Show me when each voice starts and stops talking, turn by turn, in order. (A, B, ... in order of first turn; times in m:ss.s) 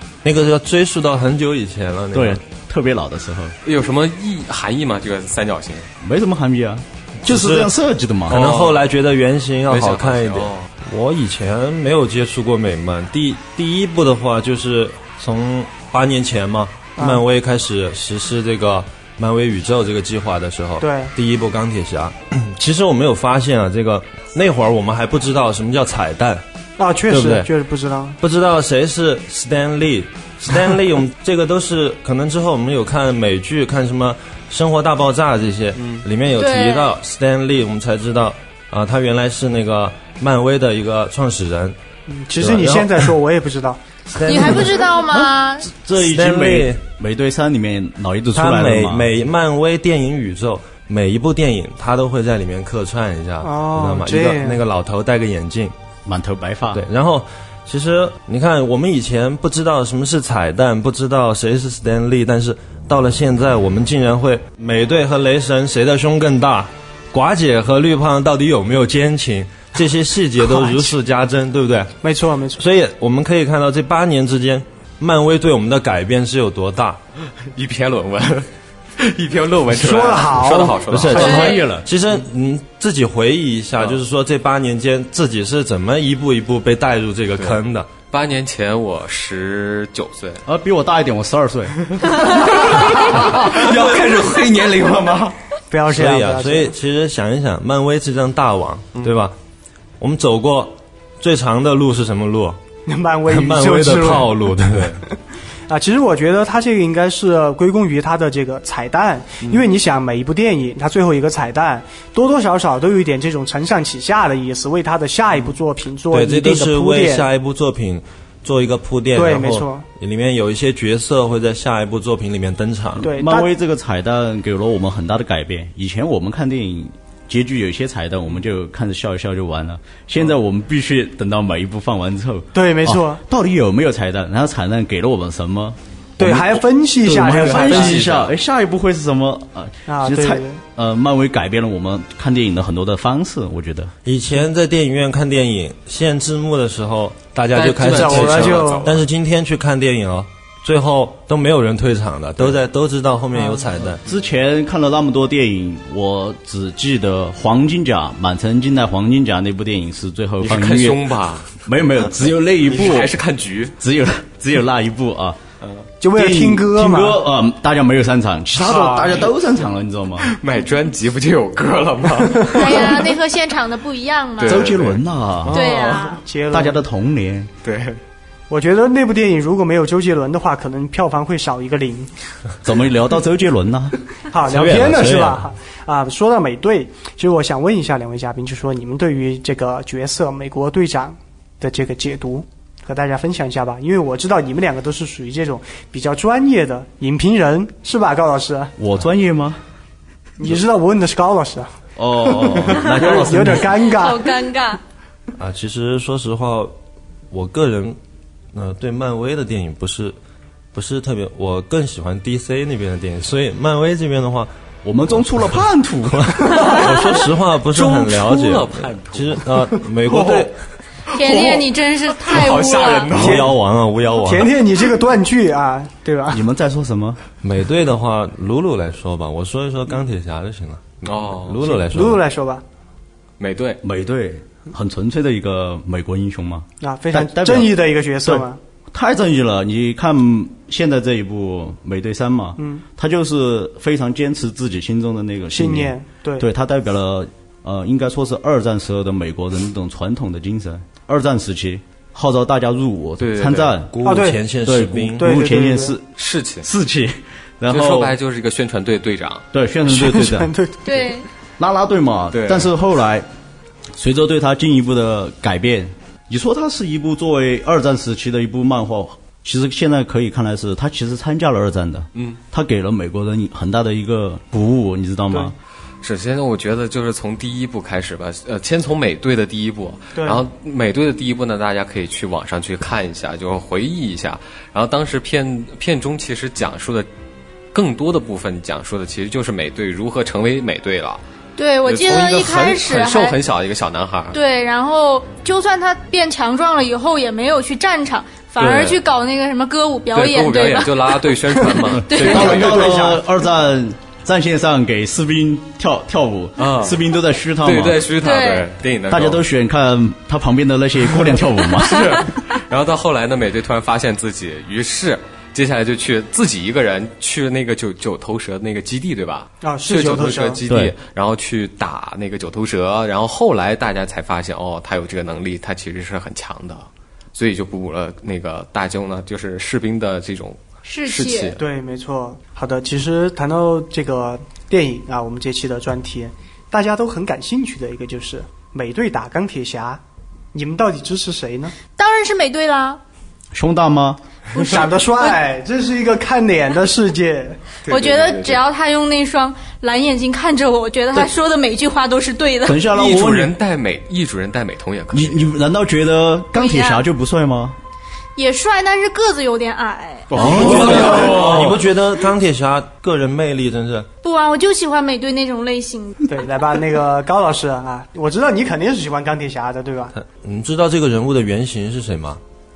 0:00.2-0:02.4 A
0:02.1-0:03.5 B
0:03.6-0:05.9 C
0:06.0-0:08.5 B
0:07.2-0:07.7 A
0:08.3-0:08.8 C
0:08.3-0:26.4 A
0:09.7-0:10.7 C
0:20.8-0:21.1 D
0:26.8-0:28.2 D
0:27.1-0:27.5 A
0:28.2-0:41.8 A
0:35.8-0:36.0 C
0:36.4-0:36.9 E
0:42.1-0:43.8 D
0:42.4-0:43.1 A
0:44.1-0:44.8 A
0:44.2-0:45.7 E
0:45.0-0:49.1 B
0:46.0-0:46.8 A
0:48.3-0:55.7 A
0:53.4-0:54.6 D
0:56.0-0:56.8 B
0:56.7-1:12.0 A
1:10.4-1:10.9 D
1:12.0-1:12.6 D
1:12.6-1:17.0 A
1:17.5-1:21.7 C
1:19.7-1:21.6 D
1:20.9-1:27.9 A
1:21.2-1:21.6 E
1:21.4-1:21.8 B
1:28.1-1:30.4 C
1:30.4-1:31.8 B
1:31.8-1:35.4 C
1:35.7-1:36.7 D
1:35.9-1:39.3 A
1:40.0-1:42.6 A
1:42.9-1:44.5 D
1:43.3-1:45.0 A
1:45.7-1:57.2 D
1:56.1-2:03.1 A
1:59.1-1:59.8 D
2:03.0-2:23.9 B
2:03.0-2:03.5 D
2:12.5-2:13.2 D
2:16.2-2:18.1 D
2:17.3-2:18.3 C
2:19.9-2:20.6 D
2:24.0-2:34.0 A
2:27.5-2:29.0 C
2:27.8-2:28.9 D
2:33.3-2:33.7 D
2:34.0-2:41.0 B
2:40.4-2:41.6 C
2:41.6-2:43.1 B
2:42.6-2:43.7 C
2:43.8-2:45.4 B
2:45.6-2:45.9 C
2:46.0-2:47.2 D
2:46.1-2:50.3 B
2:48.6-2:49.3 C
2:50.2-2:53.1 C
2:52.5-2:52.8 D
2:52.5-2:54.6 E
2:54.4-2:56.0 C
2:54.4-2:55.6 B
2:55.5-2:56.2 E
2:55.8-2:56.8 D
2:56.5-2:57.5 B
2:57.6-2:58.0 C
2:58.5-3:02.1 D
3:02.6-3:04.0 B
3:04.3-3:18.7 D
3:04.4-3:05.5 A
3:18.8-3:19.6 B
3:20.4-3:24.4 D
3:22.0-3:23.5 B
3:22.5-3:23.8 A
3:23.8-3:24.8 E
3:25.3-3:26.7 A
3:27.3-3:28.0 A
3:28.5-3:30.2 A
3:30.7-3:34.5 A
3:34.8-3:36.8 B
3:36.1-3:40.6 A
3:37.7-3:39.6 C
3:40.1-3:40.4 C
3:41.1-3:43.2 E
3:41.2-3:41.6 C
3:41.3-3:41.6 B
3:42.2-3:43.5 C
3:43.1-3:44.5 A
3:43.2-3:43.5 D
3:44.2-3:46.4 D
3:46.3-3:47.2 B
3:47.4-3:52.2 A
3:51.0-3:51.7 C
3:51.6-3:52.6 D
3:53.4-3:53.8 C
3:53.8-3:57.7 B
3:56.8-3:58.6 D
3:58.2-4:14.0 B
4:02.6-4:02.8 D
4:05.5-4:06.4 D
4:13.2-4:13.7 C
4:13.9-4:15.4 A
4:14.0-4:14.5 D
4:14.6-4:16.1 B
4:15.2-4:16.0 D
4:16.2-4:16.7 C
4:16.6-4:18.2 B
4:17.7-4:19.5 C
4:19.5-4:20.5 B
4:19.9-4:21.1 D
4:20.8-4:21.3 E
4:21.6-4:23.3 B
4:22.3-4:22.7 C
4:24.0-4:35.5 B
4:32.1-4:32.4 C
4:36.0-4:47.1 C
4:40.1-4:40.4 D
4:47.7-4:51.2 C
4:51.6-4:53.4 E
4:51.8-4:54.4 C
4:54.3-5:01.1 E
4:58.6-4:59.0 C
5:00.1-5:03.1 C
5:01.7-5:03.2 D
5:02.0-5:08.0 B
5:02.0-5:02.6 E
5:06.6-5:07.0 C
5:07.6-5:09.4 C
5:08.2-5:08.6 E
5:09.1-5:12.3 B
5:11.7-5:31.6 C
5:19.6-5:20.6 D
5:20.6-5:20.9 B
5:30.8-5:31.5 E
5:31.6-5:40.0 D
5:40.5-5:41.7 D
5:42.0-5:43.0 E
5:43.5-5:44.2 B
5:44.5-5:45.4 E
5:44.6-5:47.6 D
5:47.8-5:48.6 C
5:47.9-5:52.8 E
5:52.6-5:53.5 B
5:52.9-5:55.5 C
5:55.1-5:57.8 B
5:56.5-5:57.0 E
5:58.4-6:00.6 E
6:00.3-6:01.8 B
6:00.3-6:01.6 C
6:00.4-6:04.1 A
6:04.2-6:06.3 E
6:06.3-6:10.1 D
6:10.1-6:12.4 A